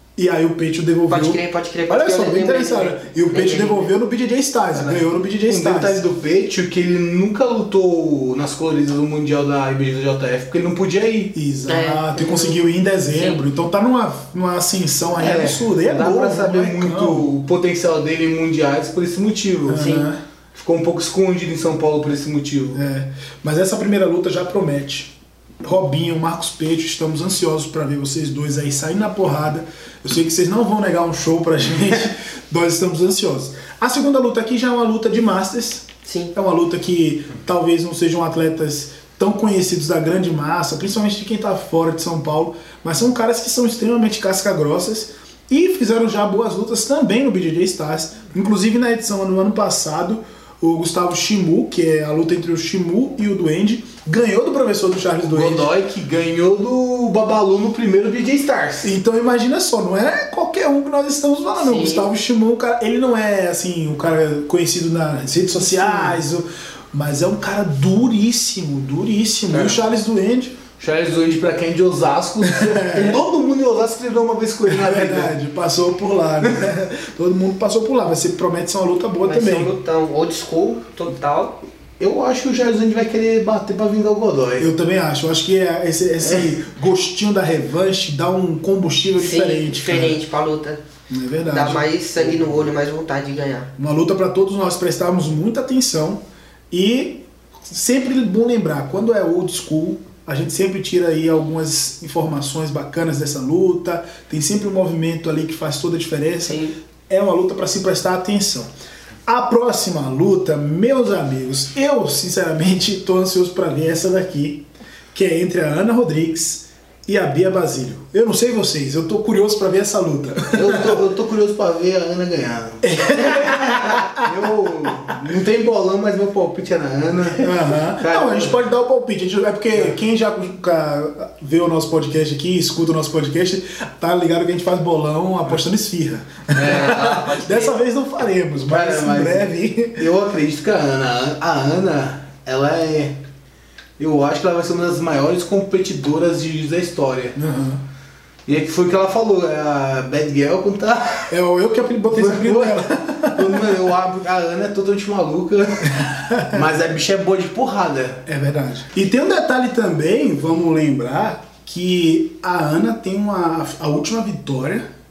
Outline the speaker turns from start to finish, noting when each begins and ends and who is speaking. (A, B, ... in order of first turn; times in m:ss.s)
0:00.2-0:06.0 A
0:01.1-0:03.9 B
0:05.5-0:11.3 C
0:11.3-0:17.3 A
0:11.7-0:13.4 B
0:15.2-0:20.0 C
0:19.7-0:20.2 A
0:19.8-0:20.1 B
0:20.5-0:22.8 C
0:22.7-0:55.7 A
0:36.0-0:36.3 B
0:55.2-0:58.9 C
0:58.8-1:10.6 A
1:01.6-1:02.1 B
1:09.5-1:09.8 C
1:10.8-1:15.3 C
1:12.4-1:13.2 A
1:14.7-1:19.7 A
1:19.2-1:21.6 B
1:22.0-1:24.7 C
1:24.6-1:30.2 A
1:26.2-1:26.6 C
1:29.2-1:30.8 B
1:31.1-1:31.9 A
1:31.5-1:33.7 B
1:33.8-1:48.7 A
1:46.4-1:46.7 B
1:49.3-2:01.0 A
2:00.5-2:08.6 C
2:02.8-2:04.3 A
2:07.4-2:20.1 A
2:16.5-2:17.2 C
2:16.6-2:17.8 B
2:18.6-2:23.2 C
2:24.0-2:27.4 C
2:27.4-2:27.8 A
2:28.5-2:31.3 C
2:31.3-2:33.8 A
2:32.1-2:38.2 C
2:36.0-2:36.6 A
2:38.3-2:44.9 A